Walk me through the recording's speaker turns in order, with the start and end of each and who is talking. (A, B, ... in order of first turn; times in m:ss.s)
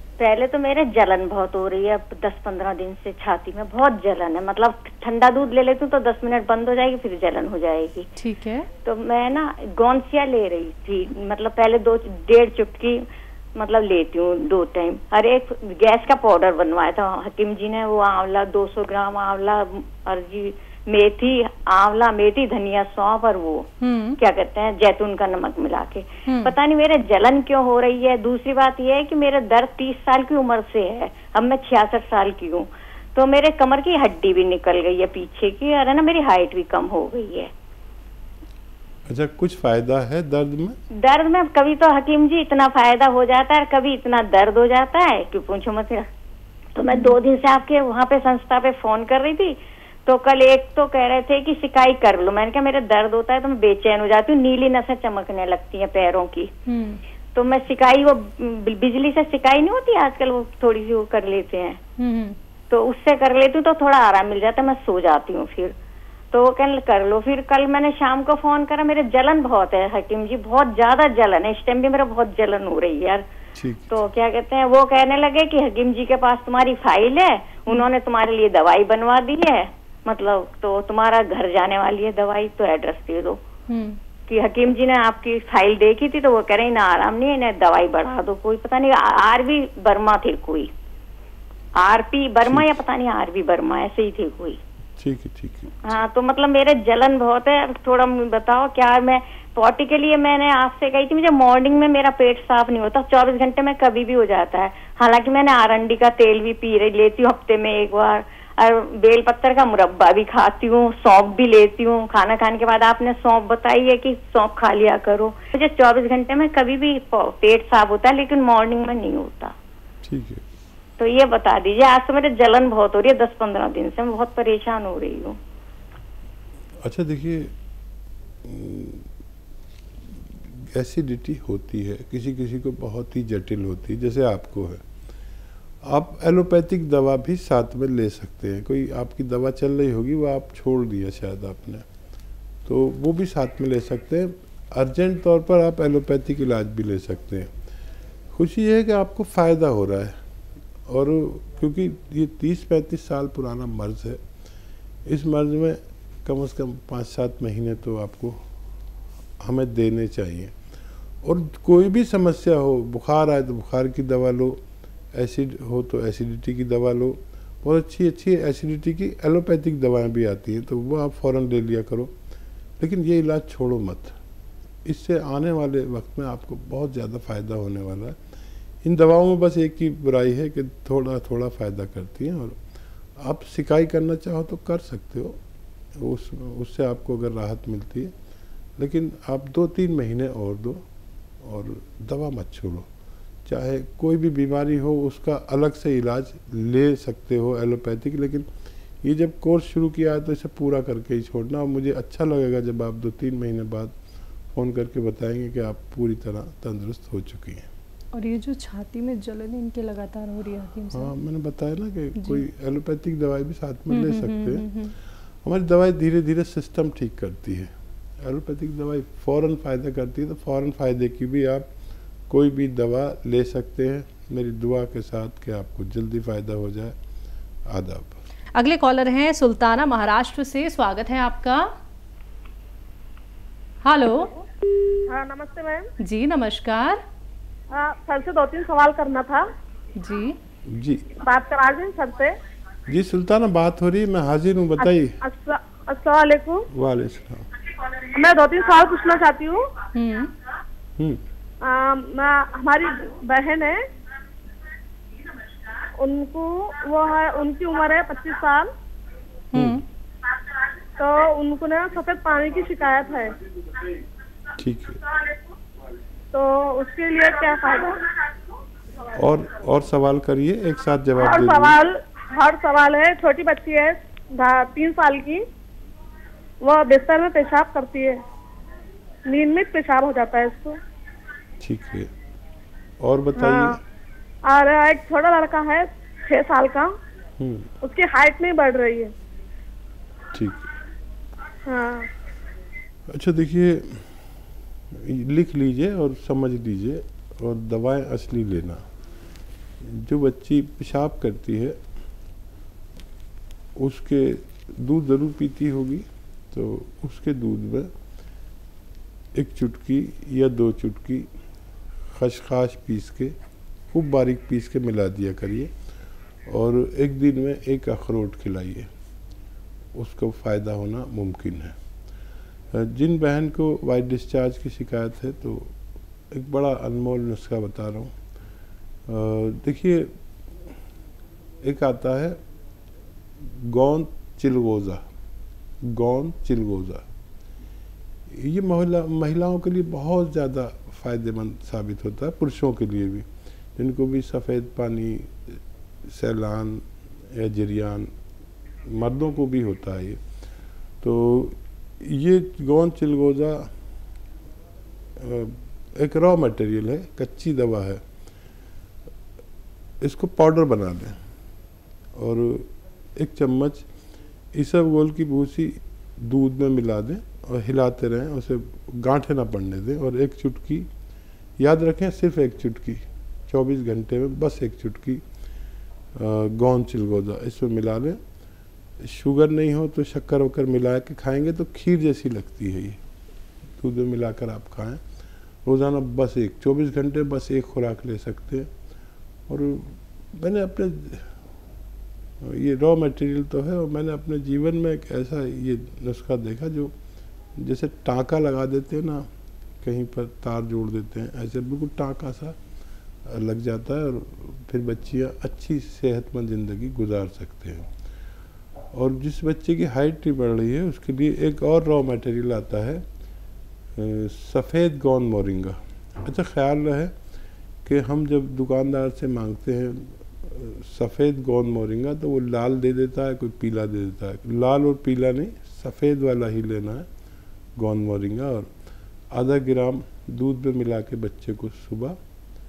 0:00.2-0:08.1 A
0:08.2-0:08.7 B
0:08.8-0:13.0 A
0:13.6-0:23.7 A
0:23.8-0:24.2 B
0:24.2-0:37.5 A
0:26.3-0:26.5 B
0:39.1-0:40.8 C
0:41.0-0:46.1 A
0:46.8-0:56.5 A
0:56.7-0:57.0 B
0:57.3-1:01.8 A
1:02.0-1:02.4 B
1:02.7-1:05.8 A
1:06.3-1:13.3 A
1:13.6-1:13.9 C
1:13.9-1:23.4 A
1:23.7-1:24.0 B
1:24.3-1:30.7 A
1:31.8-1:34.6 A
1:32.4-1:32.7 C
1:35.0-1:35.8 C
1:35.8-1:59.6 A
2:00.0-2:00.4 C
2:01.0-2:05.4 A
2:06.8-2:07.5 C
2:08.4-2:09.1 C
2:10.4-2:14.8 C
2:15.8-2:21.9 C
2:22.7-2:27.5 C
2:28.3-2:30.2 C
2:30.9-2:34.2 C
2:35.1-2:38.4 C
2:39.4-2:40.5 C
2:41.2-2:44.6 C
2:45.1-2:52.1 C
2:52.8-2:54.2 C
2:54.9-2:58.2 C
2:58.8-3:02.6 C
3:03.2-3:05.4 C
3:06.0-3:08.1 C
3:08.8-3:10.8 C
3:11.4-3:12.9 C
3:13.5-3:18.5 C
3:19.0-3:23.9 C
3:24.5-3:27.7 C
3:28.1-3:31.1 B
3:30.9-3:34.7 C
3:33.9-3:34.9 B
3:35.4-3:37.7 C
3:38.2-3:41.7 C
3:42.3-3:47.0 C
3:47.7-3:48.2 C
3:48.6-3:51.7 B
3:53.8-3:54.3 B
3:55.1-3:55.9 D
3:56.0-3:57.0 B
3:57.7-3:59.4 D
4:00.0-4:00.4 B
4:00.7-4:01.1 C
4:01.2-4:02.4 D
4:02.9-4:05.2 C
4:04.8-4:06.7 D
4:06.7-4:07.5 C
4:08.1-4:09.7 D
4:10.0-4:10.3 B
4:11.6-4:13.8 D
4:16.0-4:18.7 D
4:19.5-4:19.8 B
4:19.6-4:19.8 C
4:21.0-4:23.4 D
4:24.6-4:25.0 C
4:26.3-4:28.0 D
4:29.2-4:31.8 C
4:31.2-4:35.4 D
4:36.6-4:38.2 D
4:39.3-4:40.8 D
4:41.6-4:42.1 C
4:43.0-4:43.8 C
4:43.4-4:43.8 D
4:44.5-4:46.9 D
4:47.4-4:47.7 C
4:47.8-4:49.1 D
4:50.3-4:50.7 C
4:51.7-4:52.1 D
4:53.1-4:54.1 C
4:54.9-4:58.8 C
4:59.8-5:01.8 C
5:03.8-5:07.9 C
5:09.4-5:11.3 C
5:12.1-5:13.3 C
5:13.9-5:15.7 C
5:16.5-5:18.9 C
5:20.0-5:21.8 C
5:22.7-5:25.7 C
5:26.3-5:28.1 C
5:29.1-5:30.1 C
5:31.6-5:32.4 C
5:33.4-5:35.0 C
5:35.8-5:37.0 C
5:38.3-5:48.1 C
5:48.9-5:50.2 C
5:51.0-5:53.7 C
5:55.2-5:58.0 C
6:00.0-6:01.2 C
6:02.2-6:03.9 C
6:04.5-6:10.9 C
6:11.6-6:15.2 C
6:16.2-6:18.2 C
6:19.0-6:23.0 C
6:23.8-6:25.0 C
6:25.6-6:28.7 C
6:29.5-6:31.3 C
6:32.4-6:36.9 C
6:37.6-6:39.3 C
6:39.8-6:42.6 C
6:43.3-6:47.9 C
6:48.9-6:53.0 C
6:54.0-6:57.1 C
6:57.8-7:07.1 C
7:07.8-7:08.7 C
7:09.3-7:12.2 C